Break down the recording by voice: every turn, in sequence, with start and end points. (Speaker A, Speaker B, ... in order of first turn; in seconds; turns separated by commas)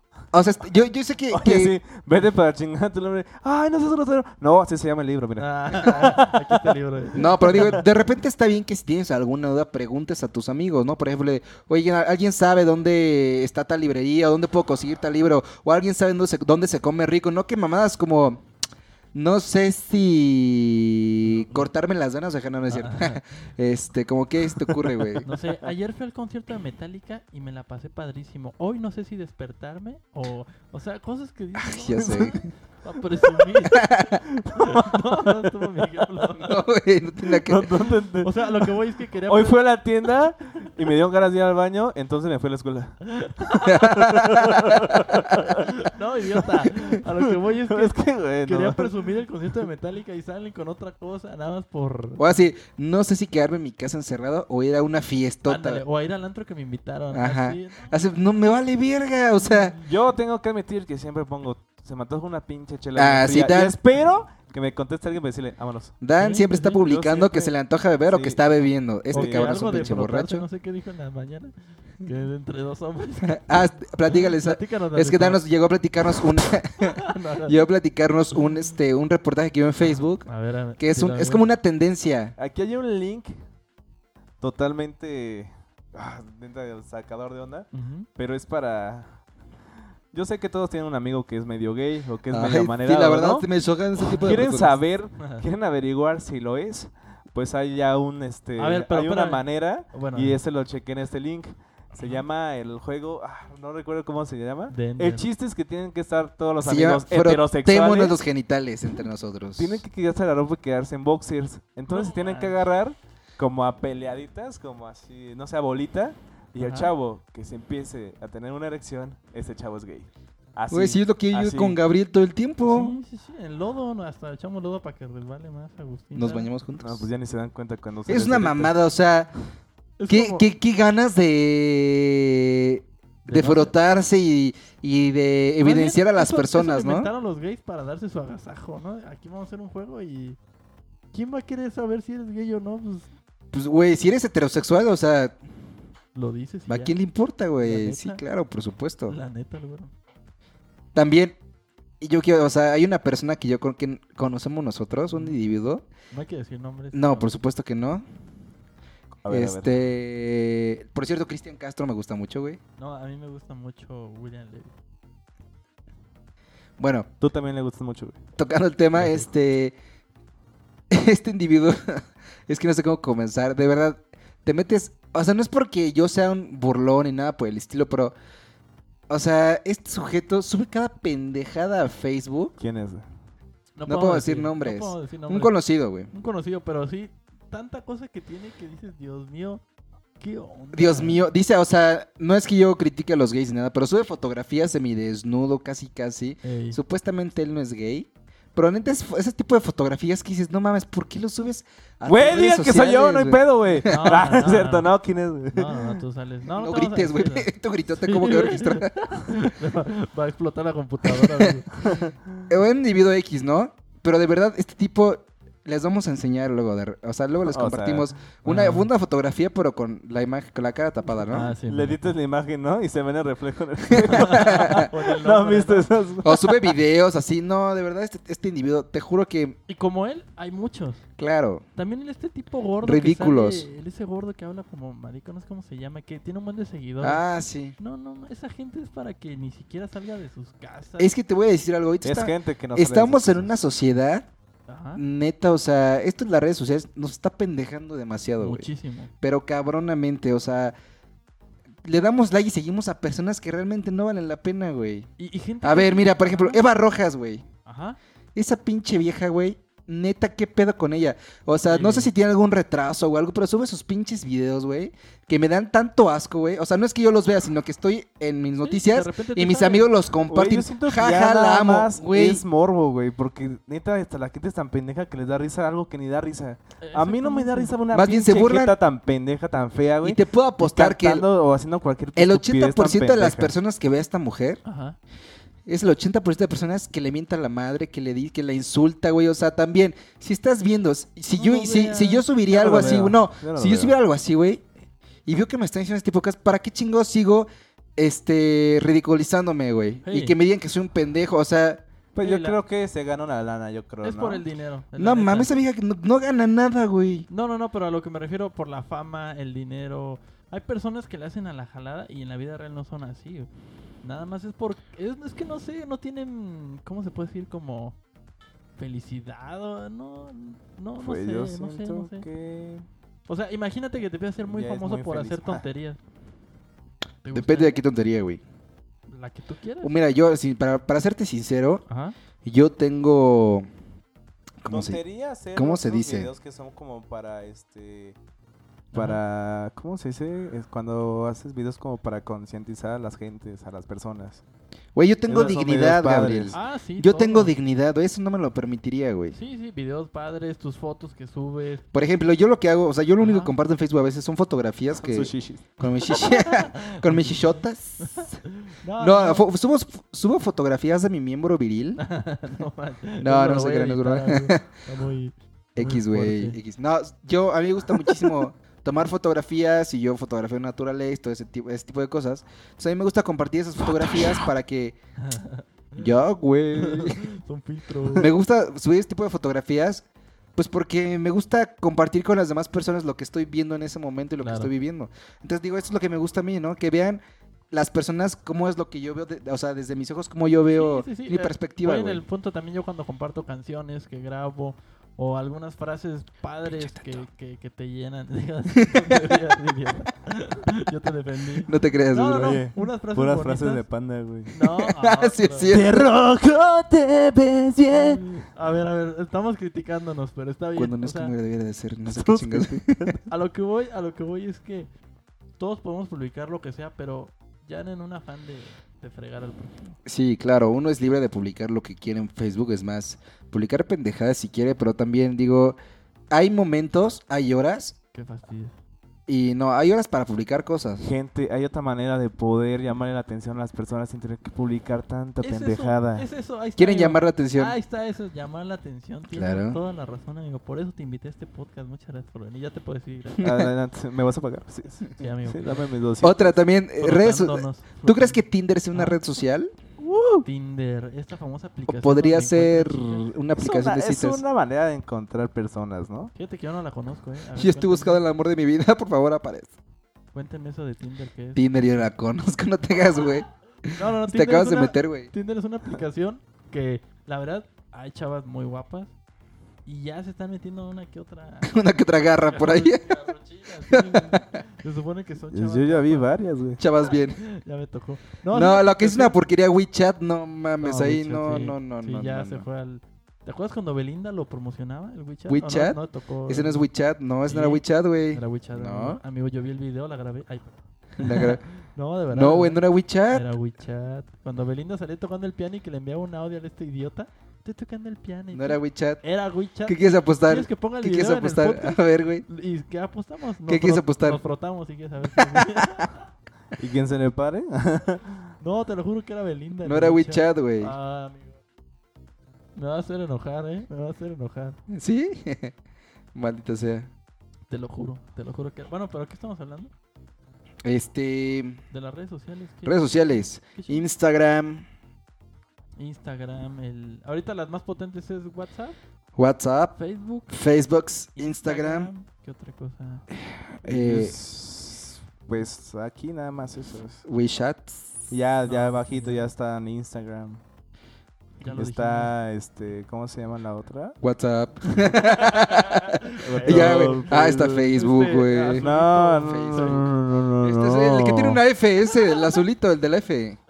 Speaker A: 0.3-1.8, Speaker B: 1.3-6.8, Speaker C: 5.4-7.8, Speaker A: 7.2-18.4, Speaker B: 7.4-7.8, Speaker A: 19.1-25.3, Speaker C: 21.2-21.7, Speaker C: 22.7-23.2, Speaker C: 25.2-36.6, Speaker A: 31.6-32.5, Speaker B: 32.0-32.3, Speaker A: 33.7-34.2, Speaker B: 34.2-35.5, Speaker A: 36.4-37.7, Speaker B: 37.4-38.7, Speaker C: 38.2-39.6, Speaker B: 39.2-45.7, Speaker C: 43.1-43.9, Speaker A: 43.6-44.7, Speaker C: 45.4-52.2, Speaker B: 47.1-49.0, Speaker A: 52.2-55.8, Speaker C: 55.5-58.0, Speaker A: 57.1-59.8, Speaker C: 59.4-59.8, Speaker B: 59.8-66.0, Speaker A: 63.0-63.8, Speaker A: 66.0-70.4, Speaker C: 66.2-66.8, Speaker B: 66.7-67.5, Speaker B: 68.0-68.4, Speaker B: 69.1-70.0, Speaker C: 69.1-73.4, Speaker A: 73.2-80.3, Speaker C: 74.0-75.4, Speaker C: 76.8-77.6, Speaker C: 78.3-78.6, Speaker C: 80.2-81.5, Speaker A: 80.8-82.3, Speaker B: 82.4-83.3, Speaker B: 84.4-89.2, Speaker C: 87.7-88.1, Speaker B: 90.1-93.5, Speaker A: 92.3-94.8, Speaker B: 94.1-108.2, Speaker C: 94.1-94.4, Speaker C: 95.2-95.4, Speaker C: 98.6-100.4, Speaker C: 104.7-105.3, Speaker A: 106.6-109.8, Speaker B: 109.5-121.8, Speaker C: 111.9-112.6, Speaker C: 116.6-116.9, Speaker A: 120.7-122.9, Speaker C: 122.6-126.5, Speaker A: 126.1-127.1, Speaker B: 126.8-128.7, Speaker A: 128.1-129.3, Speaker C: 130.0-130.4, Speaker A: 130.1-137.1, Speaker C: 133.2-133.7, Speaker C: 135.6-140.4, Speaker C: 141.1-143.1, Speaker A: 143.5-145.4, Speaker C: 146.1-146.9, Speaker A: 146.7-149.2, Speaker C: 147.6-148.2, Speaker C: 149.1-149.9, Speaker A: 150.9-151.4, Speaker A: 152.0-155.8, Speaker C: 156.1-157.3, Speaker A: 156.9-158.0, Speaker B: 159.2-159.8, Speaker A: 159.3-162.6, Speaker C: 162.8-164.7, Speaker A: 166.8-167.1, Speaker B: 167.2-168.2, Speaker A: 168.4-169.7, Speaker A: 170.9-178.1, Speaker A: 179.1-182.5, Speaker B: 182.6-183.0, Speaker C: 183.8-185.5, Speaker A: 183.8-186.1, Speaker C: 186.1-189.6, Speaker C: 190.2-191.2, Speaker A: 190.7-203.9, Speaker C: 196.4-196.8, Speaker B: 202.1-206.0, Speaker C: 203.8-204.9, Speaker C: 205.5-212.0, Speaker A: 206.6-209.3, Speaker A: 211.1-211.5, Speaker A: 212.5-221.5, Speaker B: 217.4-218.1, Speaker C: 218.4-218.9, Speaker C: 221.3-222.1, Speaker B: 221.7-226.8, Speaker A: 223.9-224.8, Speaker C: 224.1-225.9, Speaker A: 226.2-229.6, Speaker C: 229.7-231.0, Speaker A: 231.2-231.6, Speaker C: 231.8-237.2, Speaker A: 232.8-233.7, Speaker A: 237.0-237.8, Speaker C: 237.8-241.1, Speaker A: 241.0-244.3, Speaker B: 242.0-243.5, Speaker C: 244.7-245.0, Speaker A: 244.9-248.7, Speaker C: 248.4-249.1, Speaker A: 249.2-250.7, Speaker A: 251.8-255.1, Speaker C: 255.2-256.6, Speaker A: 255.6-257.4, Speaker C: 257.6-258.0, Speaker A: 258.3-272.4, Speaker C: 261.7-262.1, Speaker C: 268.6-269.9, Speaker B: 270.3-283.5, Speaker C: 276.8-277.7, Speaker A: 277.9-278.7, Speaker A: 280.0-281.2, Speaker A: 282.1-284.6, Speaker C: 284.6-285.0, Speaker A: 285.6-294.6, Speaker C: 291.3-293.1, Speaker B: 292.5-293.9, Speaker A: 295.2-301.8, Speaker C: 300.0-300.4, Speaker B: 302.1-304.4, Speaker C: 302.2-302.6, Speaker C: 304.0-305.5, Speaker A: 305.0-307.3, Speaker C: 307.3-313.5, Speaker C: 314.0-318.0, Speaker C: 318.8-322.2, Speaker B: 321.0-322.9, Speaker C: 323.3-326.0, Speaker B: 324.4-325.6, Speaker C: 327.2-327.8, Speaker A: 327.3-328.4, Speaker C: 329.1-329.9, Speaker A: 329.8-331.8, Speaker C: 331.9-332.1, Speaker A: 332.4-333.6, Speaker A: 334.6-335.0, Speaker B: 334.7-338.2, Speaker A: 335.5-336.3, Speaker C: 338.9-339.2, Speaker B: 338.9-344.4, Speaker A: 344.9-349.4, Speaker B: 345.3-346.6, Speaker C: 346.5-347.5, Speaker C: 349.3-351.9, Speaker A: 351.9-358.4, Speaker C: 353.2-353.5, Speaker B: 355.0-355.7, Speaker C: 356.1-359.4, Speaker A: 359.0-362.0, Speaker C: 362.0-366.6, Speaker A: 363.2-364.6, Speaker A: 365.8-374.9, Speaker C: 375.2-376.1, Speaker A: 376.0-377.2, Speaker C: 376.7-378.3, Speaker A: 378.1-380.0, Speaker A: 380.6-392.2, Speaker C: 384.4-384.7, Speaker C: 390.7-403.9, Speaker A: 396.7-397.2, Speaker A: 398.8-399.3, Speaker A: 401.6-402.6, Speaker B: 402.4-404.5, Speaker C: 404.5-405.7, Speaker A: 404.8-406.4, Speaker B: 405.7-408.2, Speaker C: 407.9-411.3, Speaker A: 410.8-413.1, Speaker B: 412.1-413.2, Speaker C: 413.3-414.9, Speaker C: 415.6-419.8, Speaker A: 420.1-425.8, Speaker A: 426.3-427.9, Speaker C: 428.1-428.7, Speaker A: 429.3-431.1, Speaker B: 431.0-436.3, Speaker C: 435.4-443.5, Speaker A: 436.8-437.7, Speaker A: 439.3-439.8, Speaker A: 443.4-443.7, Speaker B: 443.4-446.5, Speaker C: 445.2-445.9, Speaker A: 446.2-449.7, Speaker C: 447.0-449.2, Speaker B: 450.0-450.4, Speaker C: 450.4-453.3, Speaker A: 451.9-454.4, Speaker B: 453.6-456.3, Speaker C: 456.3-458.2, Speaker A: 457.6-459.7, Speaker C: 460.3-462.1, Speaker A: 461.6-465.3, Speaker C: 463.9-469.1, Speaker C: 469.9-471.8, Speaker A: 471.6-473.2, Speaker C: 472.4-476.3, Speaker A: 473.9-474.6, Speaker B: 475.5-476.8, Speaker A: 476.8-477.4, Speaker C: 477.3-479.3, Speaker A: 478.5-482.6, Speaker C: 480.8-486.9, Speaker A: 485.5-489.2, Speaker C: 487.4-506.2, Speaker A: 491.2-491.6, Speaker A: 492.3-493.5, Speaker A: 498.5-499.2, Speaker A: 499.9-502.4, Speaker A: 503.7-504.4, Speaker A: 505.4-506.1, Speaker B: 506.8-508.4, Speaker C: 508.6-511.6, Speaker A: 509.8-510.9, Speaker C: 512.8-514.8, Speaker A: 514.9-515.7, Speaker A: 516.3-517.1, Speaker C: 517.7-519.9, Speaker A: 520.8-521.8, Speaker C: 521.9-523.1, Speaker A: 522.8-524.9, Speaker C: 523.7-524.0, Speaker C: 526.0-529.0, Speaker A: 529.4-530.0, Speaker C: 530.0-530.6, Speaker A: 530.5-532.1, Speaker C: 531.4-533.2, Speaker A: 533.5-534.3, Speaker B: 533.8-537.2, Speaker A: 537.2-538.3, Speaker B: 538.3-540.6, Speaker C: 538.7-539.5, Speaker C: 541.6-542.3, Speaker B: 541.7-544.2, Speaker A: 544.2-548.9, Speaker C: 545.4-550.0, Speaker B: 546.4-547.9, Speaker B: 548.8-551.6, Speaker A: 549.4-550.1, Speaker A: 550.6-553.6